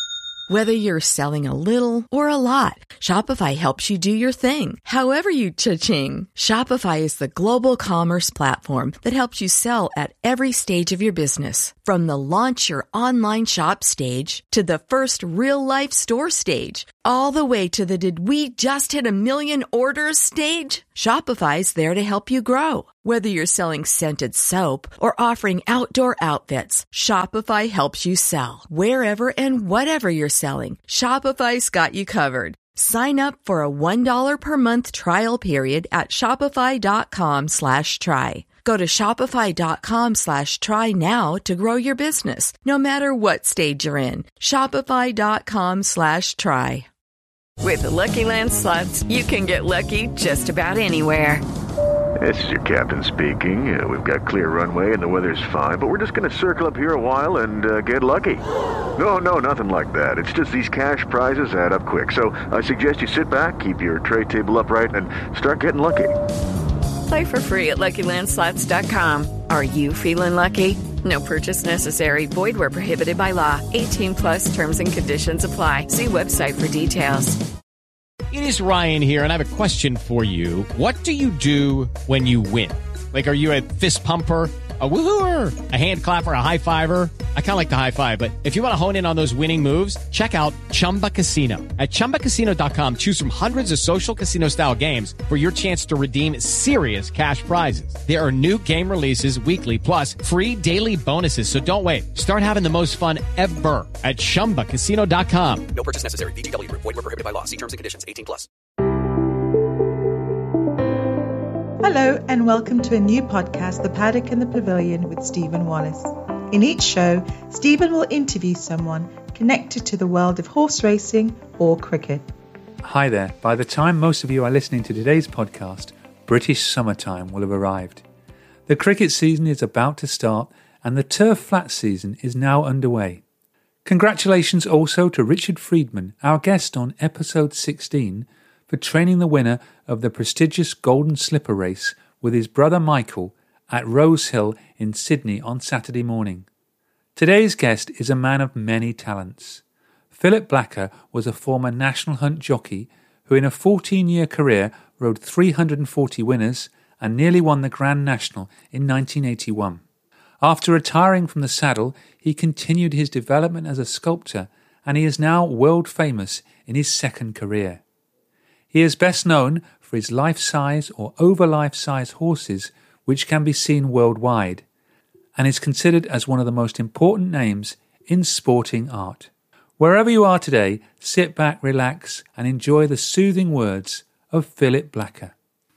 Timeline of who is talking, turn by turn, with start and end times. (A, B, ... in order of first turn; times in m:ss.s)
0:00.5-0:46.9 A
0:47.6-0:51.4 B
0:52.2-1:06.2 C
1:07.1-1:17.4 B
1:18.3-1:45.7 D
1:45.7-1:48.5 E
1:51.8-2:02.3 F
2:02.8-2:08.0 G
2:08.7-2:13.2 G
2:13.8-2:26.4 G
2:27.2-2:29.6 G
2:30.1-2:39.8 G
2:40.4-2:47.8 G
2:48.7-2:54.6 G
2:55.4-3:05.3 G